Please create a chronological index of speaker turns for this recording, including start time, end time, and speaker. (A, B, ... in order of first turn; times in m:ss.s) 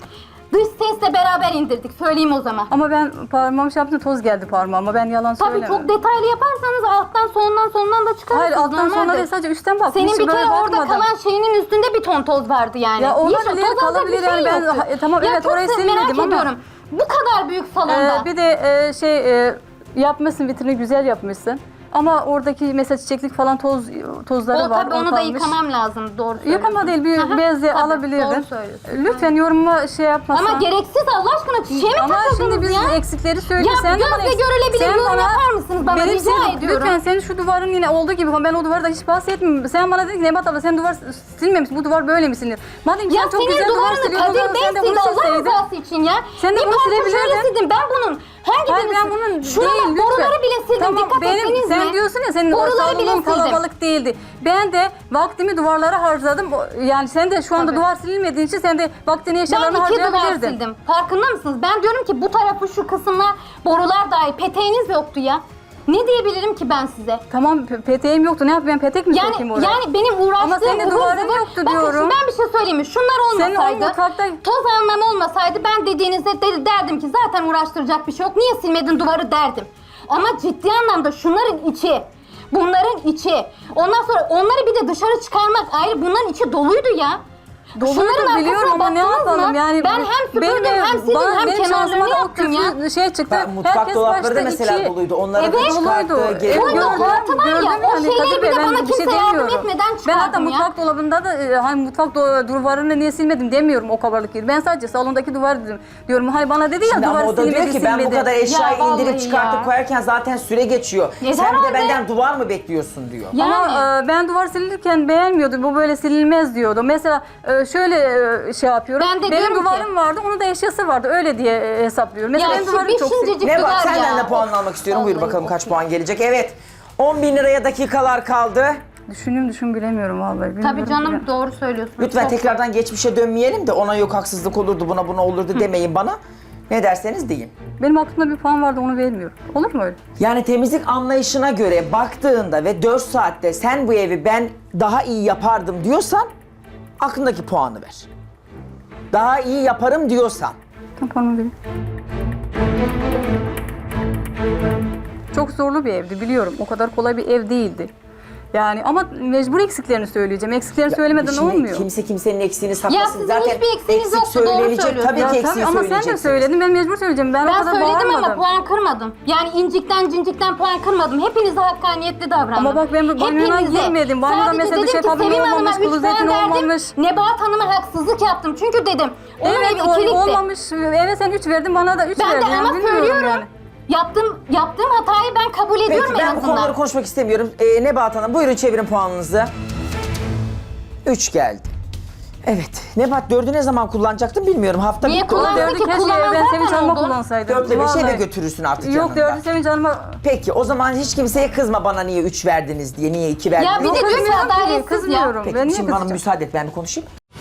0:00.5-0:02.7 A
0:02.7-0:05.9 B
0:05.4-0:09.3 A
0:08.3-0:11.1 B
0:09.9-0:18.3 A
0:13.0-0:16.5 B
0:17.9-0:25.6 B
0:24.5-0:29.3 A
0:26.4-0:30.7 B
0:30.3-0:33.0 A
0:31.7-0:45.6 B
0:33.6-0:37.0 A
0:43.1-0:52.0 A
0:46.4-0:47.5 B
0:48.7-1:00.6 B
0:52.5-0:53.6 A
0:57.6-0:57.8 A
0:59.5-1:07.2 A
1:07.3-1:09.8 B
1:09.1-1:27.2 A
1:10.4-1:12.2 B
1:13.3-1:14.4 B
1:27.8-1:35.0 B
1:27.8-1:32.7 A
1:33.3-1:37.2 C
1:35.4-1:35.9 A
1:35.5-1:48.4 B
1:36.5-1:40.7 A
1:46.8-1:53.4 C
1:48.4-1:49.7 A
1:51.2-1:52.0 A
1:53.3-1:53.9 A
1:53.4-2:03.8 B
1:59.0-1:59.9 A
2:02.3-2:05.7 A
2:03.4-2:08.8 C
2:09.1-2:11.2 B
2:10.6-2:12.5 A
2:12.0-2:16.2 C
2:16.7-2:17.5 C
2:17.8-2:20.0 B
2:20.2-2:26.3 C
2:27.0-2:28.1 C
2:29.1-2:30.6 C
2:31.0-2:31.5 B
2:35.3-2:37.9 B
2:38.5-2:41.9 B
2:40.9-2:46.5 C
2:42.9-2:45.4 A
2:45.2-2:48.4 B
2:47.4-3:00.4 A
2:52.6-2:56.9 B
2:59.4-3:03.5 B
3:02.2-3:06.8 A
3:05.9-3:09.5 C
3:11.0-3:11.7 C
3:12.4-3:15.6 C
3:15.0-3:17.2 A
3:15.3-3:18.2 B
3:17.5-3:19.4 C
3:18.8-3:20.2 B
3:20.2-3:24.4 C
3:23.6-3:25.4 A
3:23.8-3:26.2 B
3:25.4-3:27.1 C